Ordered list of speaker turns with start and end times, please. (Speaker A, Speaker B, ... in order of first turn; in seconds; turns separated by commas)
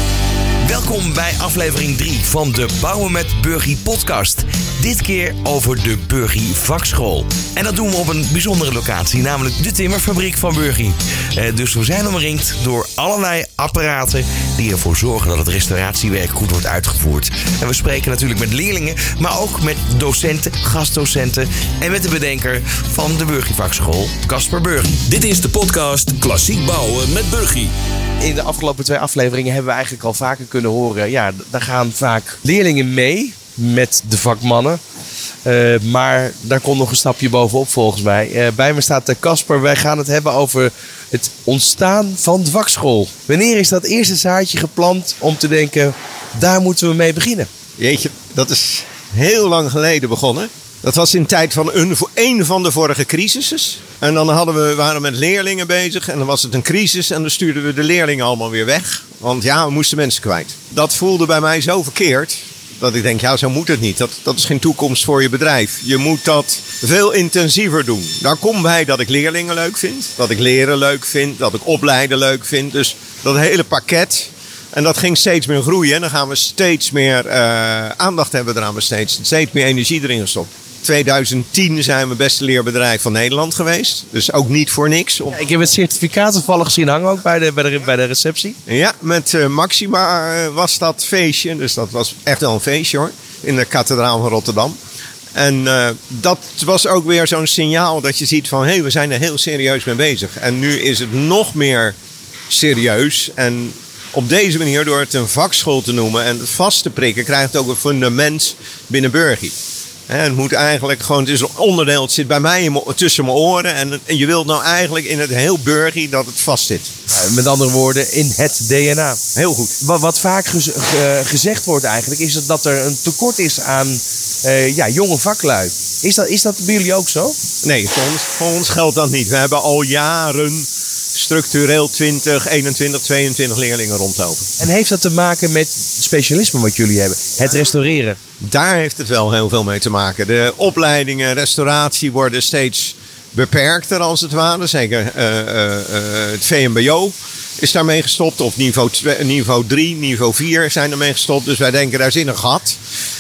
Speaker A: 0.6-25.0, Speaker B: 25.1-27.7, Speaker C: 28.2-34.8, Speaker C: 35.5-47.5, Speaker D: 47.8-85.3, Speaker C: 85.3-88.6, Speaker D: 88.7-94.8, Speaker D: 95.3-102.0, Speaker D: 102.5-109.5, Speaker D: 110.1-116.9, Speaker C: 117.1-119.2, Speaker D: 119.3-119.8, Speaker C: 119.8-127.4, Speaker D: 127.6-134.5, Speaker C: 134.6-138.2, Speaker D: 138.4-152.8